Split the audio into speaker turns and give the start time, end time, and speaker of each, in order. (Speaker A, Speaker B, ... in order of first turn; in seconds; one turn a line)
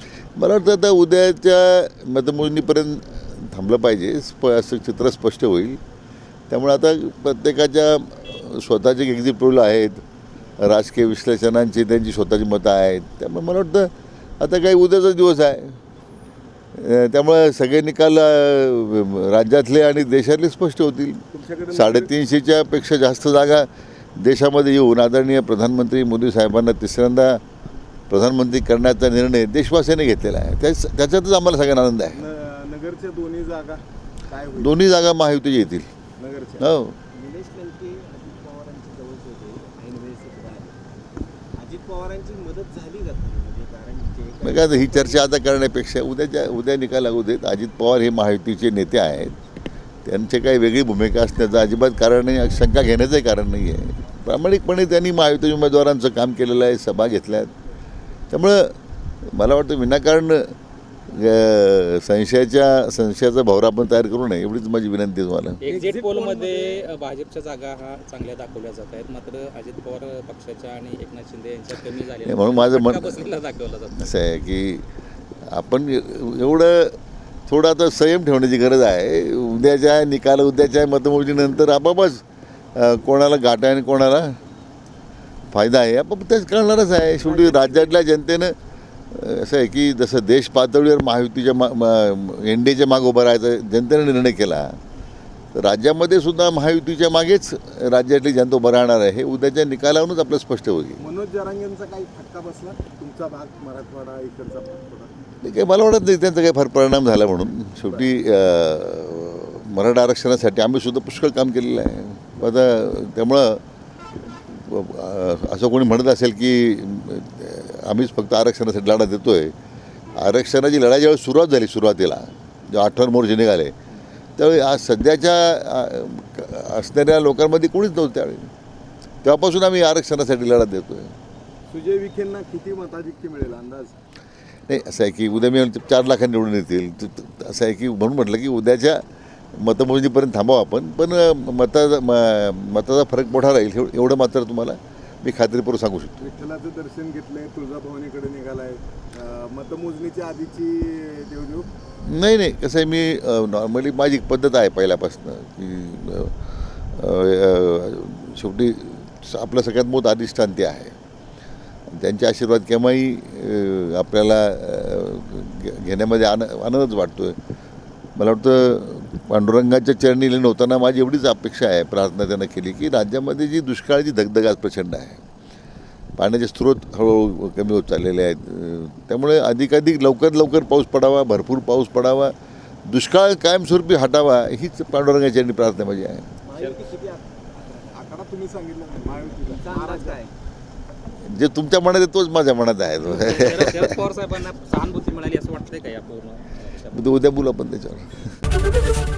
Speaker A: 0.4-5.8
Speaker A: 6.5-10.0
Speaker A: 10.6-15.8
Speaker A: 16.7-27.4
Speaker B: 21.3-22.1
Speaker A: 28.1-32.2
Speaker B: 32.1-34.8
Speaker A: 34.6-35.9
Speaker B: 36.2-36.7
Speaker A: 36.6-37.0
Speaker C: 37.1-40.8
Speaker C: 41.6-45.3
Speaker A: 44.4-49.4
Speaker A: 50.0-57.5
Speaker A: 58.3-60.5
Speaker A: 61.1-65.6
Speaker D: 65.6-74.1
Speaker B: 65.7-66.9
Speaker A: 72.2-73.2
Speaker A: 74.0-74.8
Speaker A: 75.5-77.0
Speaker A: 77.5-84.4
Speaker A: 85.5-88.6
Speaker D: 87.3-87.8
Speaker A: 89.1-94.8
Speaker A: 95.5-101.0
Speaker B: 101.0-105.1
Speaker A: 105.4-113.6
Speaker A: 114.3-119.5
Speaker A: 120.2-123.7
Speaker A: 124.4-128.5
Speaker A: 129.2-131.1
Speaker B: 131.7-133.9
Speaker A: 134.7-146.2
Speaker B: 146.2-151.7
Speaker A: 152.0-161.0
Speaker A: 161.9-167.4
Speaker A: 168.2-175.2
Speaker A: 176.2-182.3
Speaker A: 182.9-186.3
Speaker C: 186.4-188.0
Speaker D: 186.5-186.8
Speaker B: 187.9-190.2
Speaker C: 189.2-190.3
Speaker A: 191.2-194.0
Speaker D: 193.1-197.1
Speaker A: 196.9-198.2